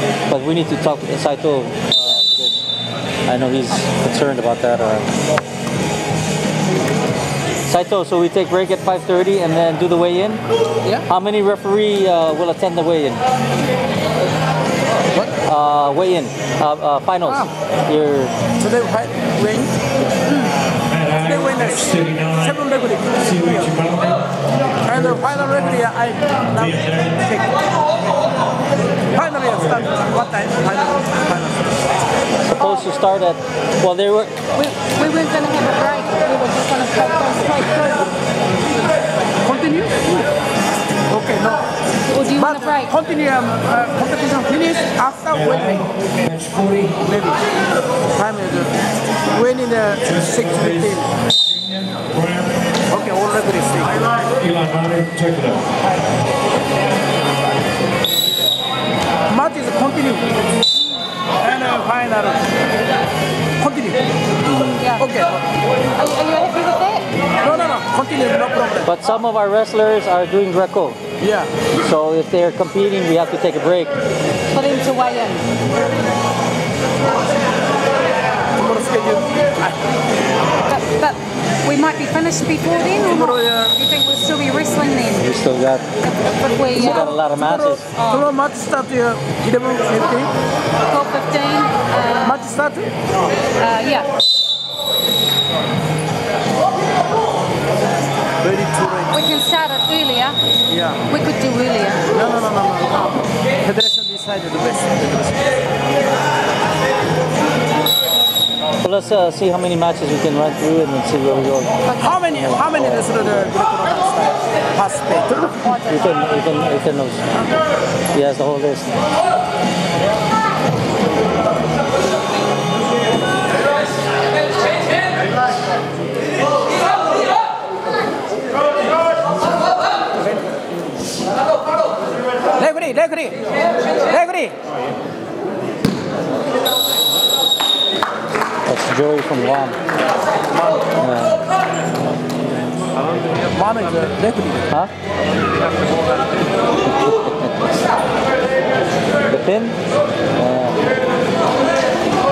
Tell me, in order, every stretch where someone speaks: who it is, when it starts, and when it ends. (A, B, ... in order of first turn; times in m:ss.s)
0:00.3-0:02.6 A
0:03.3-0:05.1 A
0:07.7-0:10.4 A
0:11.0-0:13.2 A
0:15.4-0:18.3 A
0:18.6-0:19.8 B
0:20.9-0:22.4 C
0:21.1-0:24.0 B
0:23.7-0:24.1 C
0:24.9-0:27.6 B
0:29.1-0:31.8 B
0:32.4-0:34.4 A
0:34.6-0:38.1 D
0:39.4-0:40.2 B
0:41.1-0:41.6 B
0:42.1-0:42.9 D
0:42.3-0:45.9 B
0:46.2-0:46.9 C
0:46.9-0:47.4 B
0:48.2-0:48.8 B
0:49.3-0:51.1 B
0:52.0-0:52.5 C
0:52.9-0:54.1 B
0:54.4-0:55.6 C
0:59.3-1:00.3 B
1:01.4-1:02.5 B
1:03.6-1:04.1 B
1:04.4-1:04.8 A
1:04.8-1:05.1 D
1:05.0-1:05.4 B
1:06.0-1:07.1 D
1:07.4-1:08.9 B
1:08.8-1:11.0 A
1:11.2-1:11.5 B
1:11.7-1:14.0 A
1:14.5-1:15.5 D
1:18.6-1:19.9 B
1:20.7-1:25.4 D
1:23.0-1:23.8 B
1:25.1-1:25.9 A
1:26.0-1:27.2 D
1:26.7-1:27.9 A
1:27.4-1:30.3 B
1:27.9-1:28.3 D
1:30.9-1:32.5 D
1:32.2-1:32.9 B
1:33.6-1:34.2 D
1:38.4-1:39.2 B
1:39.1-1:40.4 D
1:40.7-1:41.1 B
1:41.1-1:42.1 D
1:42.1-1:45.5 B
1:48.8-1:53.5 A
1:51.9-1:55.6 B
1:55.6-1:56.0 D
1:55.8-1:57.4 A
1:58.1-1:59.0 A
2:12.5-2:14.6 B
2:18.7-2:19.8 A
2:20.5-2:20.9 B
2:21.0-2:21.4 A
2:23.5-2:24.7 B
2:26.8-2:27.8 A
2:29.2-2:29.8 A
2:30.4-2:30.9 A